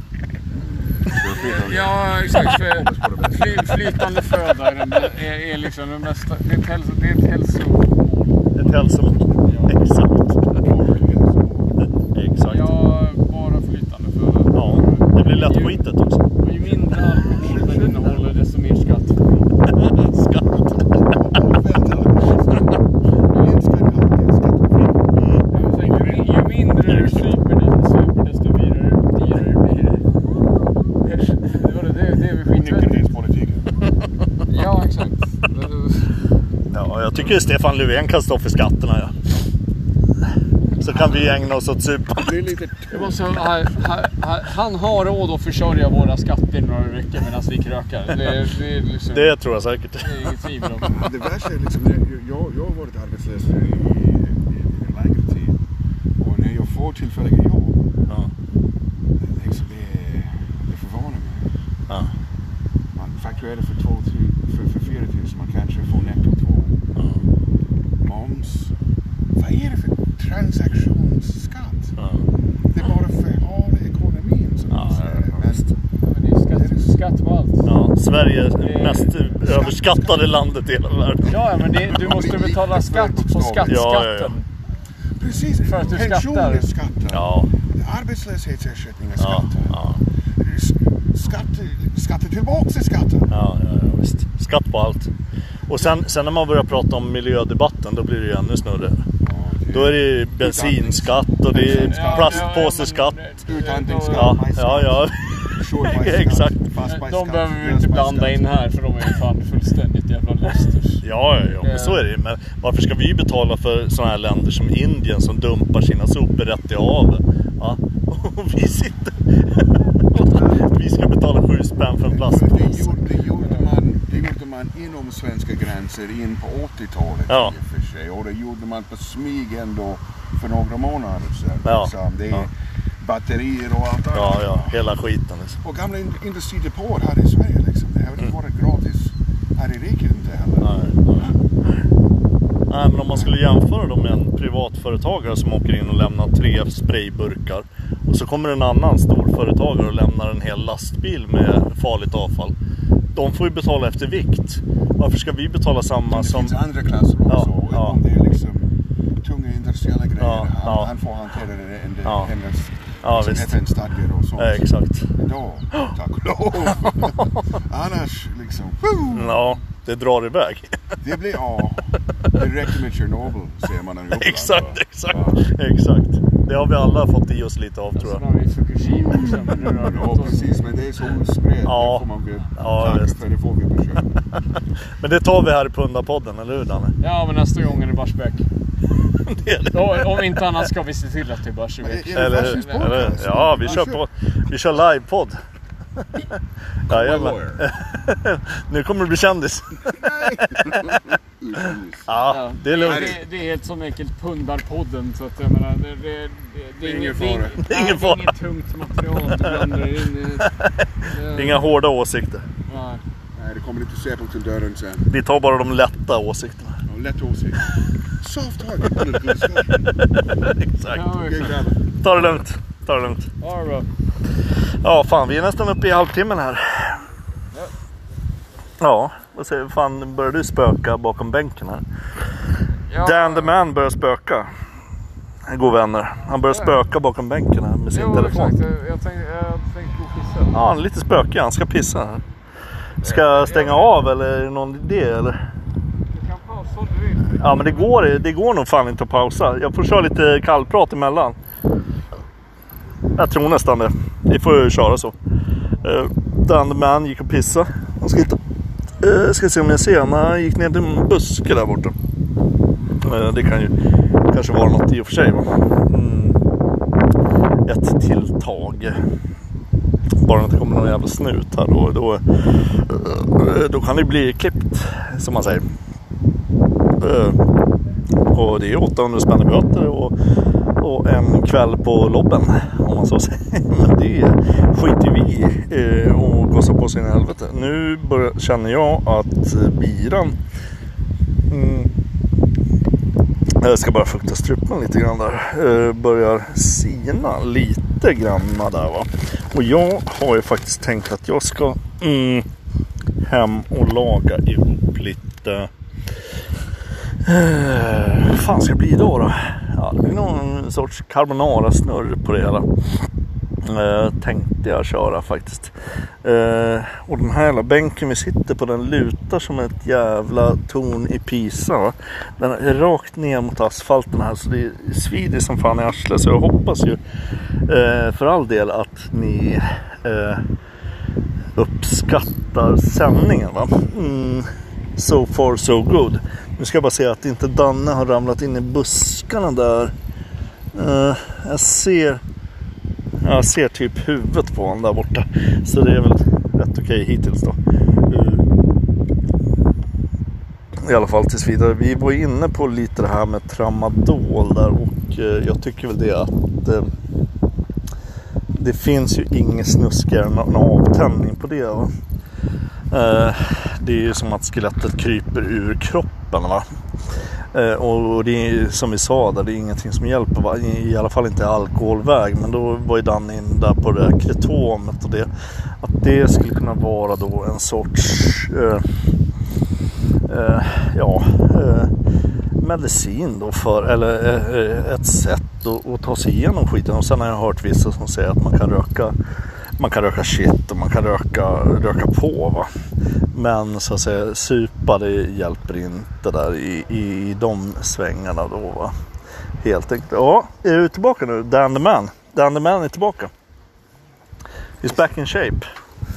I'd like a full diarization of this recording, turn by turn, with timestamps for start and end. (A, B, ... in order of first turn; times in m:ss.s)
0:00.6-0:03.8 A
0:01.2-0:08.8 B
0:08.6-0:10.6 C
0:09.4-0:09.9 B
0:10.6-0:11.8 A
0:11.8-0:12.7 C
0:12.5-0:15.8 B
0:14.5-0:16.3 C
0:16.4-0:19.5 B
0:17.3-0:18.2 A
0:19.7-0:21.2 C
0:21.1-0:22.8 A
0:23.3-0:25.1 A
0:25.2-0:25.5 C
0:25.5-0:30.0 B
0:25.8-0:26.3 A
0:26.9-0:27.2 C
0:31.0-0:33.0 B
0:32.5-0:33.8 A
0:34.5-0:36.1 B
0:36.7-0:39.1 C
0:40.8-0:42.4 C
0:42.2-0:43.2 A
0:42.9-0:49.4 B
0:49.1-0:51.0 C
0:50.0-0:51.0 B
0:50.9-0:55.6 A
0:56.2-0:57.8 A
0:59.2-1:01.5 A
1:03.0-1:06.8 A
1:07.0-1:07.2 C
1:08.0-1:08.7 A
1:09.4-1:12.0 A
1:12.0-1:12.2 C
1:12.7-1:15.7 A
1:14.7-1:15.7 C
1:16.1-1:17.7 B
1:16.6-1:16.9 A
1:17.6-1:21.6 C
1:18.6-1:19.2 B
1:19.4-1:20.3 A
1:21.2-1:24.5 B
1:21.9-1:23.9 A
1:23.7-1:24.4 C
1:25.2-1:29.8 A
1:25.6-1:26.7 B
1:27.1-1:27.5 C
1:29.2-1:30.0 C
1:30.4-1:33.3 A
1:33.3-1:35.1 C
1:35.7-1:39.0 C
1:39.2-1:42.5 A
1:39.7-1:43.2 C
1:41.5-1:44.4 B
1:43.4-1:48.4 A
1:44.1-1:46.6 C
1:46.8-1:51.0 B
1:51.0-2:03.0 C
1:51.6-1:52.0 B
2:02.1-2:14.8 A
2:07.3-2:07.5 C
2:11.6-2:12.5 C
2:14.1-2:15.6 C
2:15.6-2:21.4 A
2:20.6-2:21.4 C
2:22.7-2:32.5 C
2:33.2-2:36.5 C
2:36.1-2:49.4 A
2:37.3-2:38.0 C
2:40.2-2:40.9 C
2:43.0-2:43.6 C
2:44.4-2:45.1 C
2:49.1-2:51.0 C
2:51.0-2:55.5 A
2:54.2-2:58.2 C
2:58.0-3:00.8 B
2:59.1-3:04.2 A
3:01.7-3:02.1 C
3:02.6-3:03.2 C
3:05.0-3:07.0 C
3:07.0-3:08.4 B
3:09.2-3:10.3 C
3:09.7-3:12.8 B
3:11.8-3:14.0 A
3:12.1-3:15.4 C
3:16.9-3:20.0 C
3:16.9-3:17.6 A
3:19.8-3:22.1 A
3:22.1-3:23.2 C
3:22.3-3:31.6 B
3:22.8-3:23.2 A
3:26.8-3:27.6 A
3:27.6-3:28.3 C
3:29.2-3:29.6 C
3:30.4-3:32.4 C
3:32.7-3:33.0 B
3:33.4-3:35.1 A
3:35.1-3:36.8 C
3:36.9-3:40.0 A
3:39.9-3:41.2 C
3:40.9-3:41.5 B
3:41.1-3:42.2 A
3:42.0-3:43.3 C
3:43.4-3:43.9 B
3:44.8-3:47.0 C
3:48.8-3:51.8 C
3:52.9-3:53.6 B
3:53.0-3:54.5 C
3:55.5-3:58.6 C
3:56.5-3:56.8 B
3:57.9-4:00.6 B
4:00.5-4:02.2 C
4:03.0-4:04.0 B
4:03.0-4:05.4 C
4:06.1-4:07.9 B
4:07.4-4:11.4 C
4:13.2-4:15.2 C
4:15.8-4:18.4 C
4:19.0-4:21.9 C
4:23.0-4:23.7 C
4:24.3-4:26.4 C
4:27.6-4:29.0 C
4:30.2-4:35.6 C
4:37.0-4:37.4 C
4:38.3-4:40.1 C
4:40.8-4:50.4 C
4:51.5-4:51.9 C
4:53.6-5:02.4 C
5:03.2-5:05.7 C
5:07.2-5:12.7 C
5:13.6-5:15.7 C
5:16.2-5:27.0 C
5:27.7-5:30.4 C
5:31.6-5:39.9 C
5:40.7-5:42.2 C
5:43.2-5:47.6 C
5:48.1-5:48.4 C
5:50.8-5:56.9 C
5:58.6-6:01.9 C
6:02.9-6:06.6 C
6:07.5-6:15.3 C
6:15.8-6:18.8 C
6:20.3-6:21.9 C
6:22.6-6:29.2 C
6:29.8-6:32.7 C
6:33.3-6:38.9 C
6:39.6-6:43.3 C
6:44.8-6:45.6 C